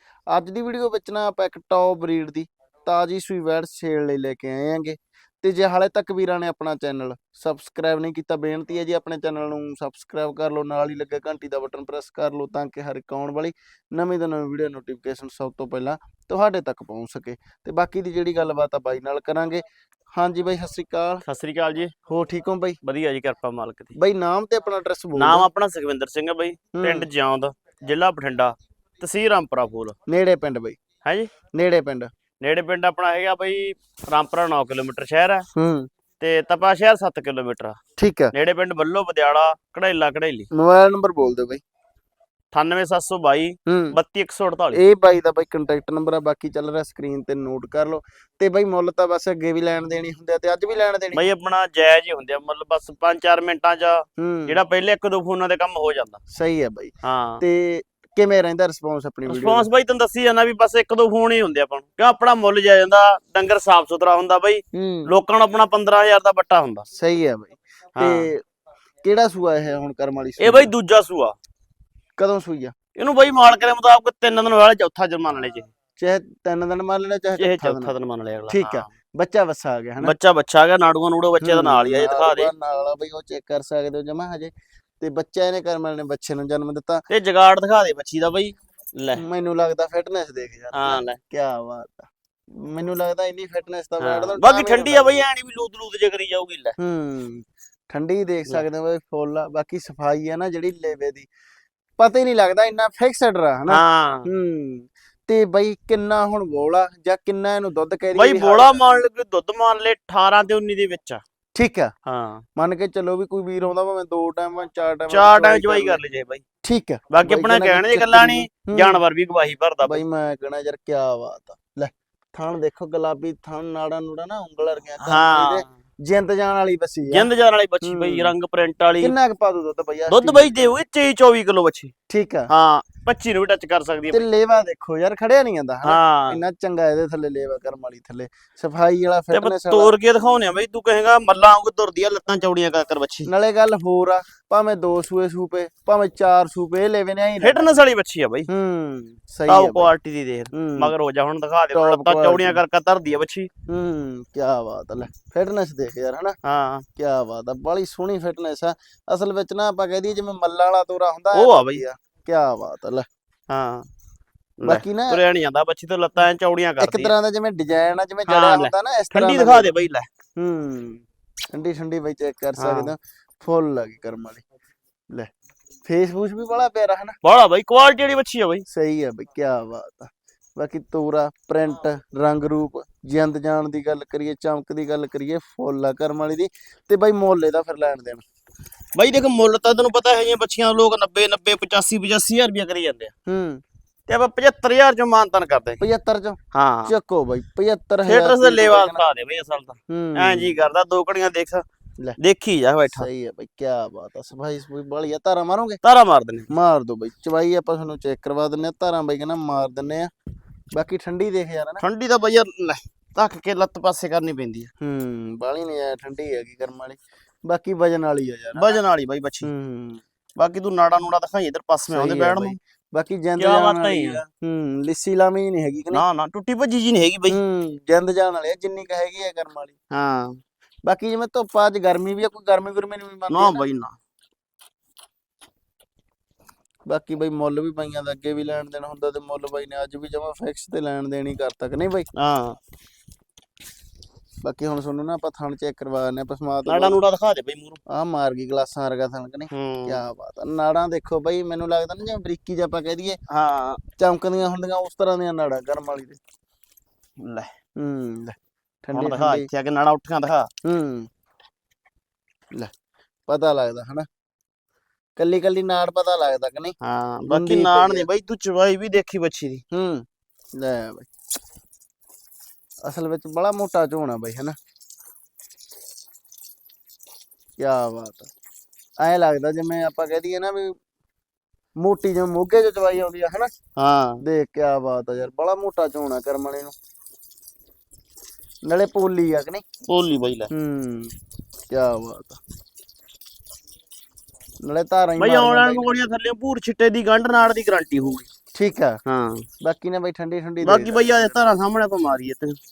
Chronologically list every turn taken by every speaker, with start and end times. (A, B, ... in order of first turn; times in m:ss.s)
0:00.3-0:19.6 A
0:20.2-0:21.2 A
0:21.2-0:21.9 B
0:22.1-0:22.8 A
0:22.8-0:23.9 B
0:24.0-0:25.5 A
0:25.2-0:30.0 B
0:26.7-0:27.1 A
0:30.1-0:30.8 A
0:31.0-0:31.3 B
0:31.5-0:32.1 A
0:32.4-0:35.4 B
0:35.5-0:35.9 A
0:36.2-0:37.8 B
0:38.0-0:38.3 A
0:38.3-0:40.5 B
0:40.5-0:41.6 A
0:42.5-0:44.8 B
0:43.7-0:44.0 A
0:44.7-0:51.3 A
0:51.1-0:56.2 B
0:54.2-0:54.6 A
0:56.3-0:59.7 A
0:57.0-0:57.4 B
0:59.3-1:06.8 B
1:04.7-1:05.1 A
1:06.9-1:08.4 A
1:08.0-1:08.3 B
1:09.0-1:10.7 A
1:10.4-1:11.3 B
1:12.2-1:12.7 A
1:13.0-1:15.7 B
1:16.0-1:17.9 A
1:17.4-1:18.9 B
1:18.5-1:20.1 A
1:20.0-1:22.5 B
1:21.4-1:27.0 A
1:27.1-1:29.2 B
1:29.2-1:35.2 A
1:30.7-1:31.2 B
1:34.0-1:36.8 B
1:36.8-1:41.3 A
1:42.0-1:49.0 A
1:43.7-1:44.3 B
1:48.1-1:51.2 B
1:51.5-1:51.9 A
1:52.0-1:52.4 B
1:52.6-1:56.0 A
1:55.1-1:56.4 B
1:56.6-1:59.0 A
1:57.1-2:00.0 B
1:59.8-2:07.3 A
2:05.0-2:05.7 B
2:07.1-2:09.1 B
2:07.8-2:08.3 A
2:09.0-2:10.5 A
2:10.1-2:11.9 B
2:12.1-2:12.5 A
2:12.5-2:14.2 B
2:14.1-2:19.9 A
2:15.8-2:16.4 B
2:19.3-2:23.3 B
2:23.2-2:27.7 A
2:27.4-2:28.5 B
2:28.5-2:29.9 A
2:29.5-2:33.5 B
2:30.5-2:30.9 A
2:31.7-2:32.6 A
2:33.7-2:36.4 A
2:36.4-2:36.8 B
2:37.0-2:43.0 A
2:41.3-2:41.8 B
2:43.5-2:43.9 B
2:44.6-2:47.1 B
2:44.6-2:45.2 A
2:46.8-2:49.7 A
2:48.3-2:50.1 B
2:50.4-2:54.4 A
2:52.6-2:52.9 B
2:55.8-2:57.2 A
2:57.2-2:58.6 B
2:58.7-3:08.2 A
3:08.9-3:13.1 B
3:13.3-3:13.6 A
3:14.1-3:15.8 B
3:15.8-3:19.0 A
3:16.5-3:16.9 B
3:18.0-3:21.6 B
3:19.9-3:20.6 A
3:22.2-3:23.1 B
3:22.9-3:25.8 A
3:25.8-3:26.5 B
3:26.5-3:30.1 A
3:30.7-3:31.8 A
3:31.8-3:34.7 B
3:34.8-3:38.8 A
3:38.5-3:39.5 B
3:39.4-3:40.0 A
3:40.4-3:42.6 B
3:41.9-3:46.0 A
3:43.4-3:44.2 B
3:45.9-3:47.4 B
3:47.3-3:49.8 A
3:49.9-3:50.4 B
3:50.8-3:53.6 A
3:53.3-3:54.0 B
3:56.9-4:02.1 A
4:02.1-4:02.6 B
4:04.4-4:07.0 A
4:06.6-4:07.8 B
4:07.9-4:13.2 A
4:09.5-4:10.0 B
4:13.3-4:13.8 B
4:14.0-4:16.2 A
4:17.2-4:17.5 B
4:17.8-4:19.5 A
4:18.9-4:20.5 B
4:20.6-4:21.1 A
4:23.3-4:24.1 A
4:25.2-4:26.8 A
4:26.8-4:29.6 B
4:27.3-4:28.1 A
4:29.7-4:31.1 A
4:32.8-4:34.6 A
4:37.6-4:38.3 A
4:39.0-4:40.7 A
4:41.8-4:43.5 A
4:43.8-4:44.2 B
4:44.2-4:46.7 A
4:48.6-4:49.6 A
4:49.9-4:50.5 B
4:50.5-4:51.1 A
4:51.7-4:52.4 A
4:54.6-4:56.0 A
4:55.2-4:58.3 B
4:58.5-4:59.0 A
4:59.0-4:59.4 B
4:59.6-5:01.4 A
5:00.6-5:02.6 B